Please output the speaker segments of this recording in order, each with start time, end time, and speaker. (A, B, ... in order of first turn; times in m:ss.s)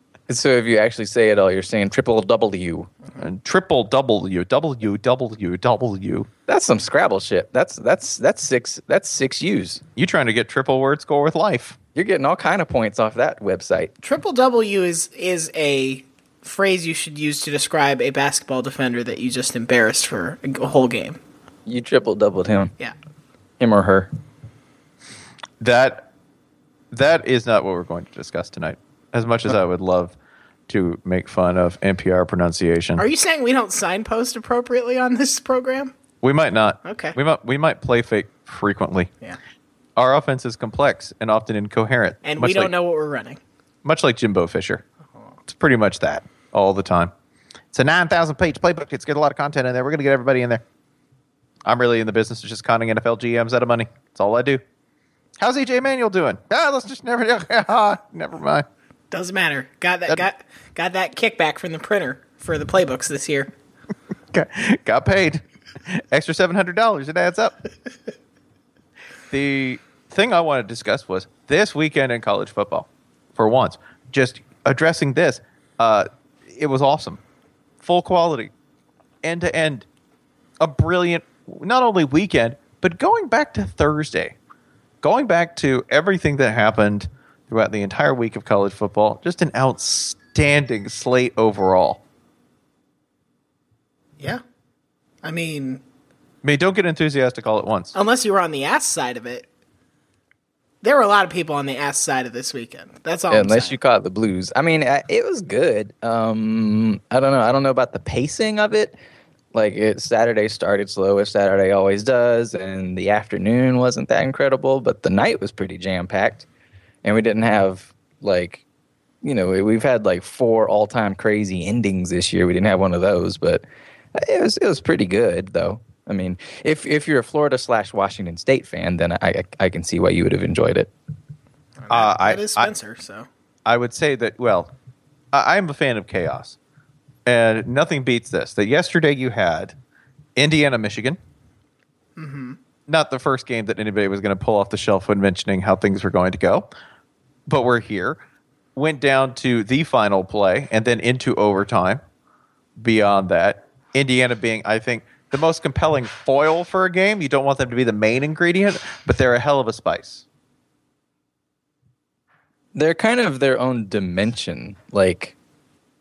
0:00.3-0:02.9 A
0:03.2-0:06.3 B
0:06.5-0:09.8 A
0:10.0-0:11.8 B
0:12.0-0:13.9 A
0:14.0-0:21.2 C
0:21.7-0:22.7 A
0:23.6-0:24.1 A
0:25.6-0:26.1 B
0:26.9-0:30.1 B
0:30.7-0:33.0 B
0:33.0-0:35.9 C
0:36.2-0:39.1 B
0:36.8-0:37.2 C
0:40.0-0:42.7 B
0:42.2-0:43.4 C
0:43.8-0:44.8 B
0:45.5-0:47.1 B
0:47.7-0:50.6 B
0:51.7-0:54.6 B
0:55.4-0:58.7 B
0:59.1-1:03.5 C
1:04.3-1:07.6 B
1:09.3-1:17.2 B
1:17.8-1:18.5 B
1:19.2-1:19.9 B
1:20.6-1:24.4 B
1:25.0-1:32.0 B
1:35.2-1:35.8 C
1:36.4-1:37.9 B
1:38.0-1:39.5 C
1:40.8-1:43.8 C
1:43.3-1:49.0 A
1:49.5-1:56.5 A
1:57.0-1:58.6 A
1:59.2-2:03.6 A
2:04.1-2:10.9 A
2:11.8-2:13.3 C
2:11.9-2:12.7 B
2:13.7-2:14.7 B
2:15.3-2:16.6 B
2:17.3-2:19.8 B
2:20.4-2:21.2 B
2:22.2-2:22.6 C
2:22.9-2:26.7 B
2:27.5-2:28.2 B
2:28.8-2:32.0 B
2:32.8-2:40.2 B
2:42.7-2:45.4 A